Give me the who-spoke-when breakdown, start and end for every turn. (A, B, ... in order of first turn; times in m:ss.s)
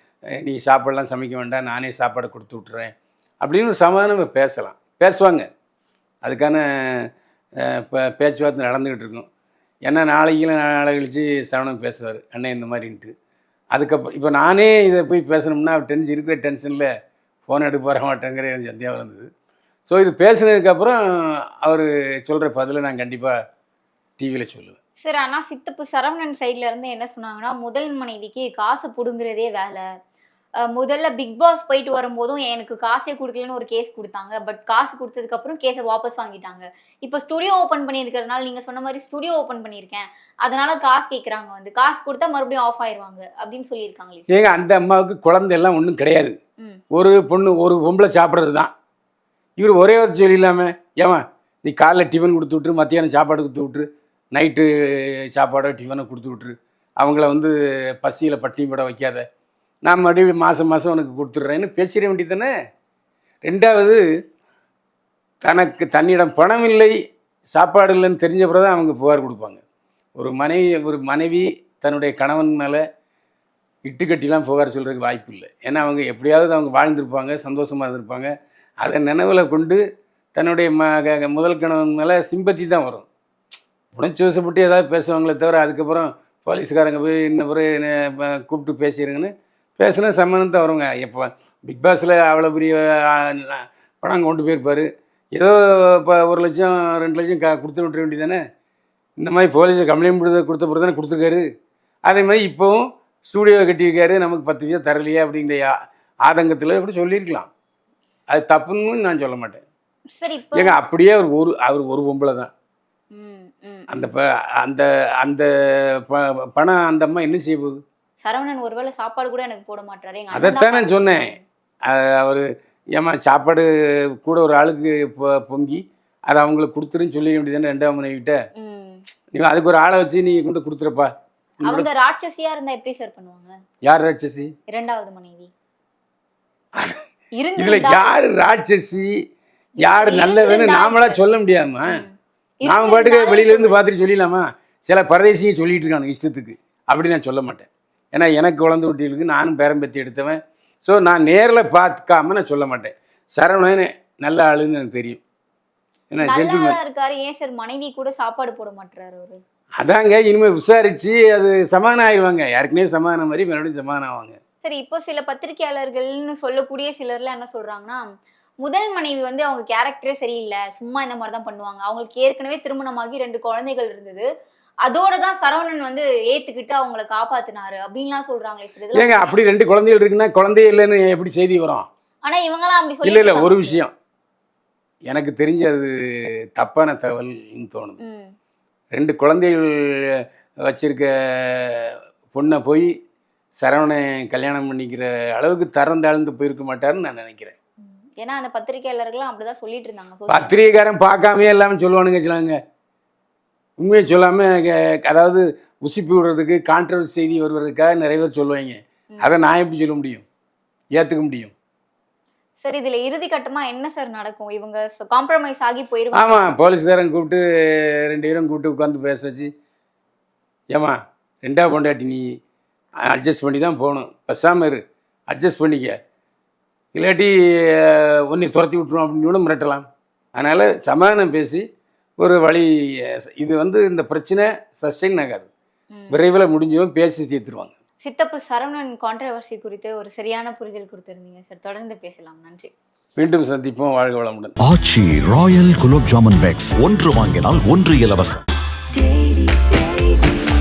0:00.4-0:05.5 A
0:06.2-0:07.1 A
0:07.6-0:09.3 A
0:09.9-0:13.1 A
0:13.7-0:16.9 A
0:17.5-0:19.3 A
0:19.9-0:23.3 A
0:24.2-0:24.8 A
0:25.0-0:29.8 B
0:30.6-0:44.3 B
0:44.3-0:46.3 A
0:46.9-0:48.7 A
0:49.6-0:59.2 A
0:59.8-1:02.5 A
1:03.4-1:04.0 A
1:05.4-1:06.9 A
1:07.5-1:09.6 A
1:10.2-1:12.8 A
1:13.8-1:19.8 A
1:20.3-1:23.1 A
1:23.9-1:38.4 A
1:39.2-1:41.4 A
1:42.0-1:45.7 A
1:46.2-1:47.5 A
1:48.3-1:49.6 A
1:50.1-1:50.8 B
1:50.5-1:52.5 A
1:53.1-1:53.9 B
1:53.9-1:57.8 A
1:58.2-2:01.4 B
2:00.3-2:01.3 A
2:01.8-2:03.7 A
2:04.2-2:08.4 A
2:08.5-2:09.0 B
2:09.3-2:11.1 A
2:11.6-2:13.5 B
2:13.8-2:14.5 A
2:14.7-2:15.5 B
2:17.4-2:18.2 B
2:17.6-2:19.1 A
2:19.8-2:21.2 B
2:19.8-2:22.0 A
2:21.9-2:23.8 B
2:22.6-2:35.2 A
2:36.1-2:36.7 A
2:36.2-2:39.4 B
2:39.8-2:44.4 A
2:44.6-2:48.1 B
2:48.6-2:54.2 B
2:54.8-2:59.4 B
2:58.9-3:01.9 A
3:02.2-3:03.8 B
3:03.0-3:03.9 A
3:05.1-3:08.0 A
3:08.0-3:08.3 B
3:08.9-3:12.9 A
3:13.6-3:17.5 A
3:17.8-3:20.6 B
3:20.3-3:22.6 A
3:23.8-3:30.2 A
3:30.9-3:31.5 A
3:32.6-3:36.5 B
3:36.1-3:39.5 A
3:40.7-3:42.2 A
3:43.1-3:46.0 A
3:46.9-3:51.6 A
3:52.2-3:55.5 A
3:56.1-3:57.7 A
3:58.0-4:02.7 B
4:03.2-4:04.5 A
4:04.6-4:08.4 C
4:08.9-4:10.4 B